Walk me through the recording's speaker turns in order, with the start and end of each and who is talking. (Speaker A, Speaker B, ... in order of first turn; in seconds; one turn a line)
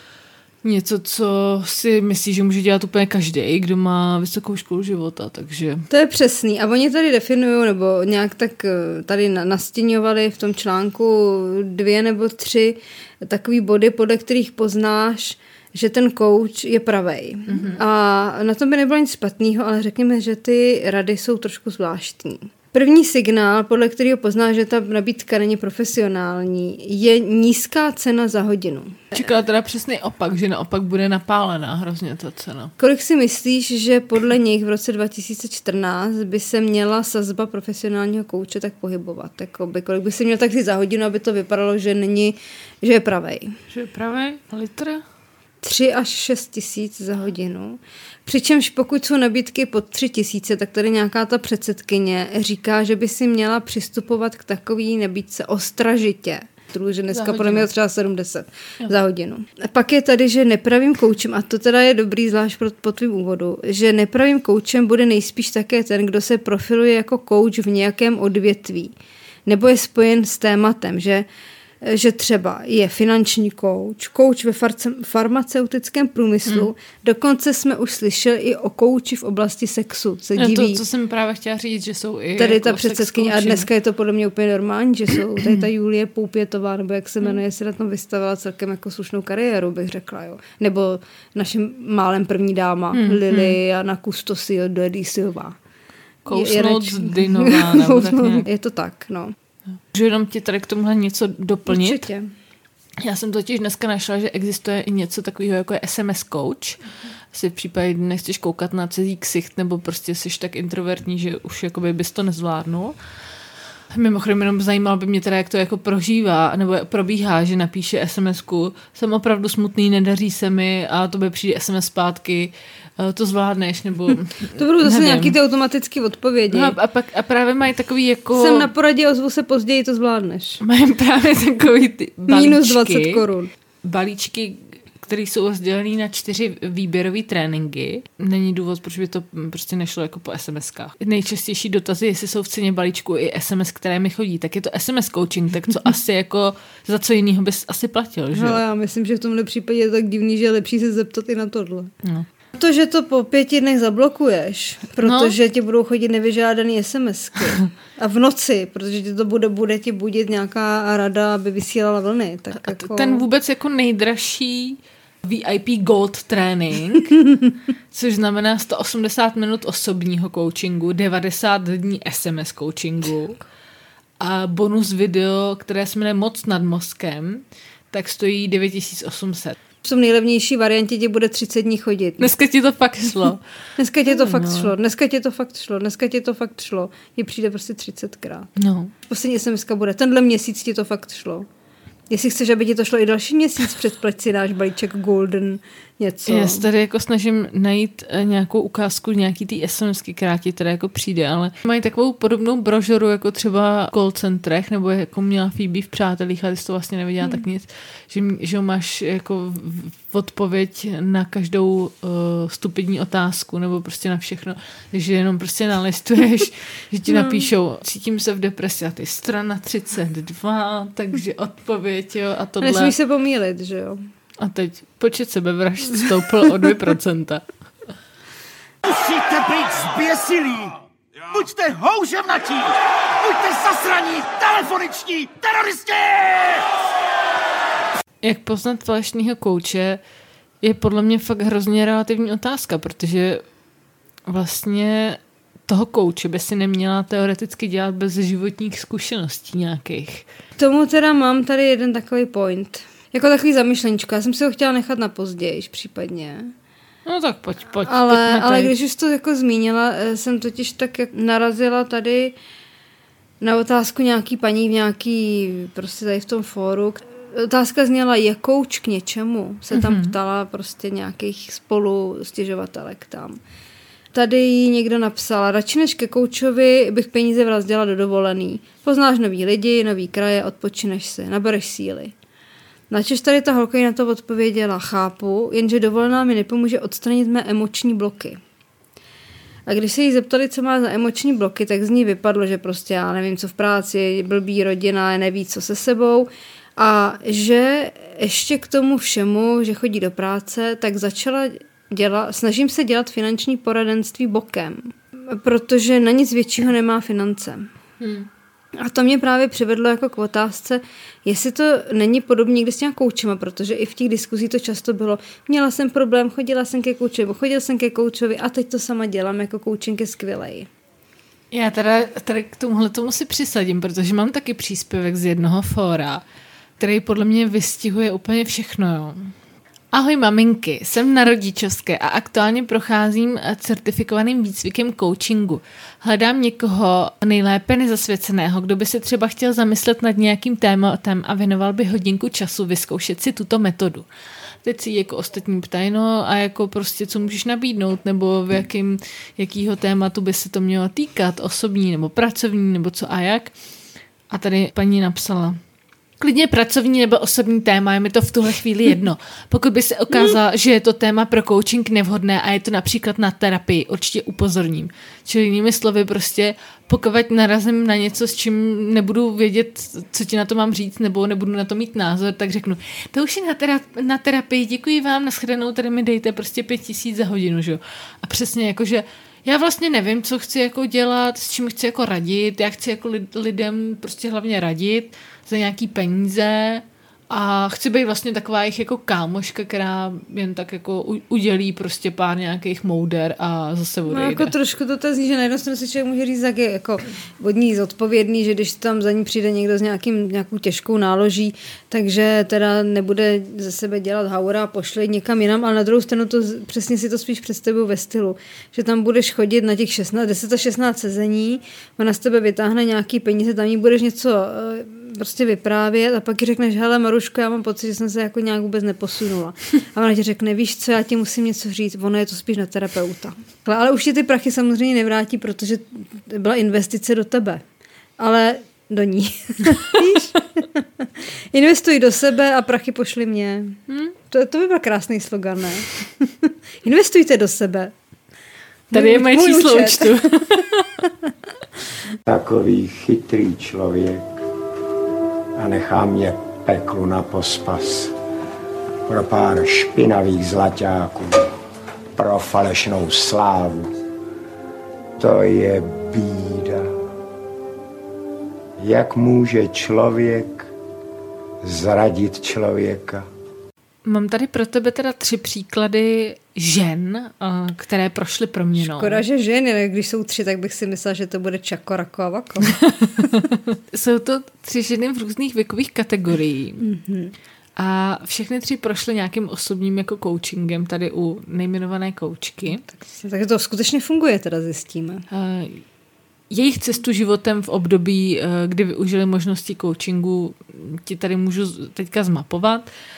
Speaker A: 0.6-5.8
Speaker B: 5.9-29.1
Speaker A: 17.5-17.8
Speaker A: 29.1-32.7
Speaker B: 32.8-43.5
Speaker A: 43.7-45.0
Speaker B: 45.6-68.9
Speaker A: 57.1-57.7
Speaker B: 69.5-71.3
Speaker B: 71.8-80.8
Speaker A: 80.4-83.7
Speaker B: 82.4-95.6
Speaker A: 92.9-93.6
Speaker A: 96.2-98.5
Speaker B: 96.3-99.3
Speaker A: 99.9-102.0
Speaker B: 101.7-102.3
Speaker A: 103.0-106.8
Speaker A: 107.3-112.9
Speaker A: 113.9-125.3
Speaker B: 124.5-126.8
Speaker A: 126.5-128.7
Speaker B: 128.3-130.6
Speaker A: 130.6-133.2
Speaker B: 132.3-133.5
Speaker A: 133.8-148.6
Speaker B: 148.3-151.9
Speaker B: 152.5-163.2
Speaker A: 155.0-155.3
Speaker A: 162.6-167.2
Speaker A: 167.9-173.4
Speaker A: 174.2-179.6
Speaker B: 179.8-182.3
Speaker A: 182.2-183.4
Speaker B: 183.8-188.5
Speaker A: 184.1-184.7
Speaker A: 188.6-188.9
Speaker B: 189.1-191.5
Speaker B: 192.1-196.6
Speaker A: 196.3-222.9
Speaker B: 217.1-217.4
Speaker B: 222.6-224.0
Speaker A: 224.4-227.4
Speaker C: 228.9-230.7
Speaker C: 231.3-236.3
Speaker A: 238.2-240.0
Speaker A: 240.6-243.4
Speaker A: 244.3-250.2
Speaker B: 250.6-256.5
Speaker A: 257.1-258.7
Speaker B: 257.8-262.4
Speaker B: 263.4-273.4
Speaker A: 269.7-270.1
Speaker B: 274.1-282.1
Speaker B: 282.9-288.4
Speaker B: 289.7-307.7
Speaker A: 308.0-308.3
Speaker B: 308.8-320.7
Speaker A: 321.5-326.2
Speaker A: 326.8-329.3
Speaker A: 329.9-344.1
Speaker A: 344.6-353.5
Speaker A: 354.3-355.6
Speaker A: 356.2-394.5
Speaker B: 394.1-427.6
Speaker B: 428.2-433.8
Speaker A: 433.9-434.1
Speaker B: 434.3-437.9
Speaker B: 438.9-440.4
Speaker A: 438.9-440.9
Speaker D: 442.2-444.3
Speaker D: 445.6-448.1
Speaker D: 449.1-451.5
Speaker D: 452.1-453.9
Speaker D: 455.2-456.9
Speaker D: 458.8-460.7
Speaker D: 461.6-463.2
Speaker A: 464.0-469.2
Speaker B: 468.8-473.2
Speaker A: 473.9-476.8
Speaker B: 476.8-477.3
Speaker A: 477.8-482.8
Speaker B: 482.9-485.2
Speaker A: 485.3-485.8
Speaker A: 486.5-492.9